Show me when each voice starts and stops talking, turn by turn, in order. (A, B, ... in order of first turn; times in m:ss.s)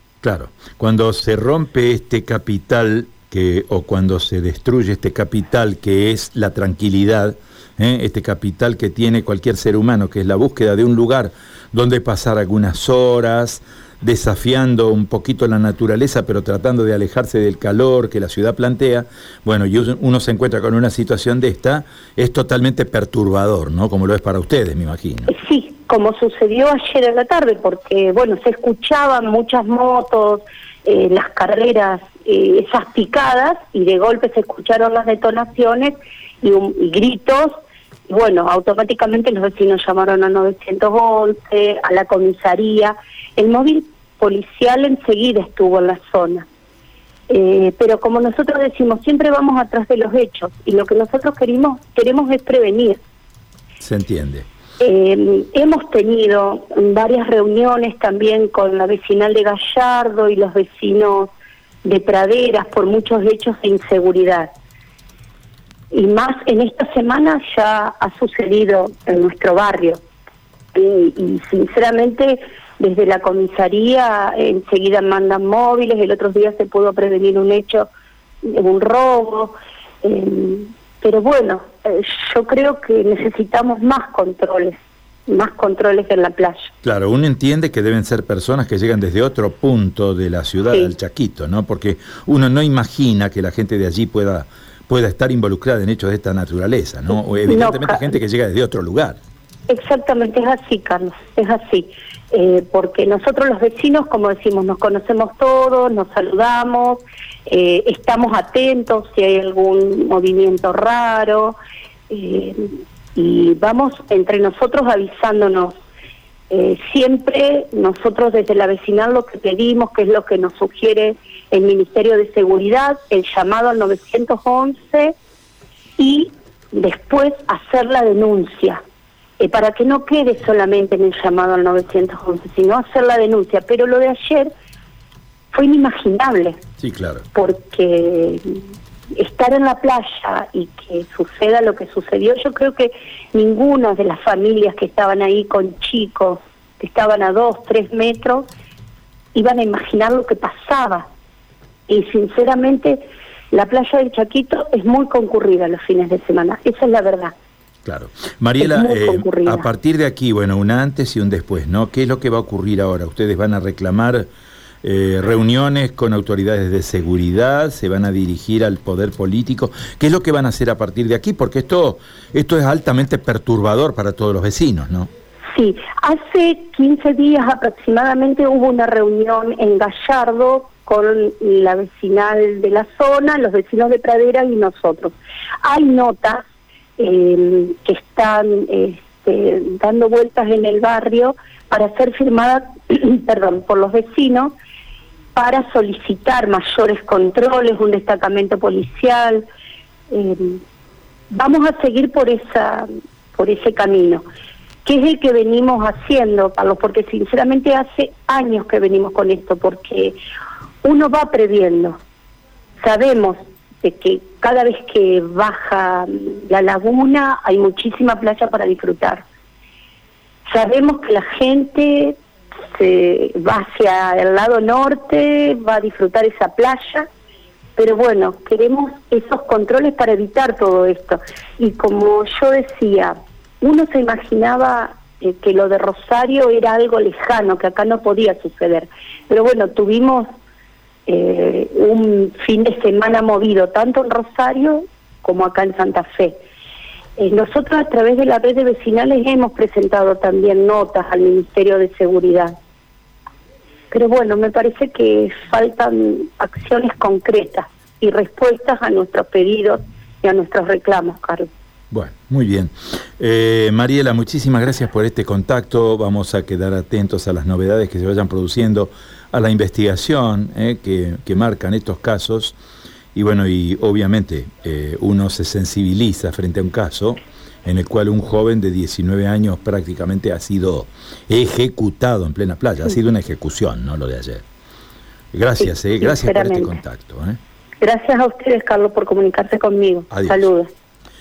0:00.2-0:25.3 A
0:25.3-0:37.6 B
0:38.1-0:46.4 B
0:47.3-0:53.0 B
0:53.8-0:54.4 A
0:54.8-1:01.3 B
1:01.8-1:04.5 B
1:05.9-1:10.0 B
1:10.7-1:17.9 B
1:18.4-1:24.8 B
1:25.3-1:26.7 B
1:26.8-1:39.2 A
1:37.4-1:38.1 B
1:39.7-1:51.6 B
1:52.1-1:55.8 B
1:56.5-2:05.1 B
2:06.0-2:08.8 B
2:09.4-2:14.5 B
2:15.5-2:16.6 B
2:16.8-2:17.2 A
2:17.3-2:18.6 B
2:19.2-2:28.5 B
2:29.3-2:31.1 B
2:31.9-2:37.3 B
2:37.8-2:44.3 A
2:38.6-2:39.7 B
2:44.8-2:55.1 A
2:55.5-3:06.4 B
3:07.0-3:14.5 B
3:15.4-3:19.4 B
3:20.1-3:20.6 B
3:21.3-3:24.2 B
3:24.8-3:30.2 B
3:30.8-3:32.0 B
3:32.8-3:39.2 B
3:40.5-3:42.2 B
3:42.7-3:47.1 B
3:47.8-4:00.3 B
4:01.1-4:06.4 B
4:07.2-4:12.5 B
4:13.9-4:21.5 B
4:21.9-4:32.6 A
4:33.1-4:44.4 A
4:45.3-4:47.4 A
4:45.6-4:46.8 B
4:47.8-4:50.7 B
4:50.1-4:50.5 A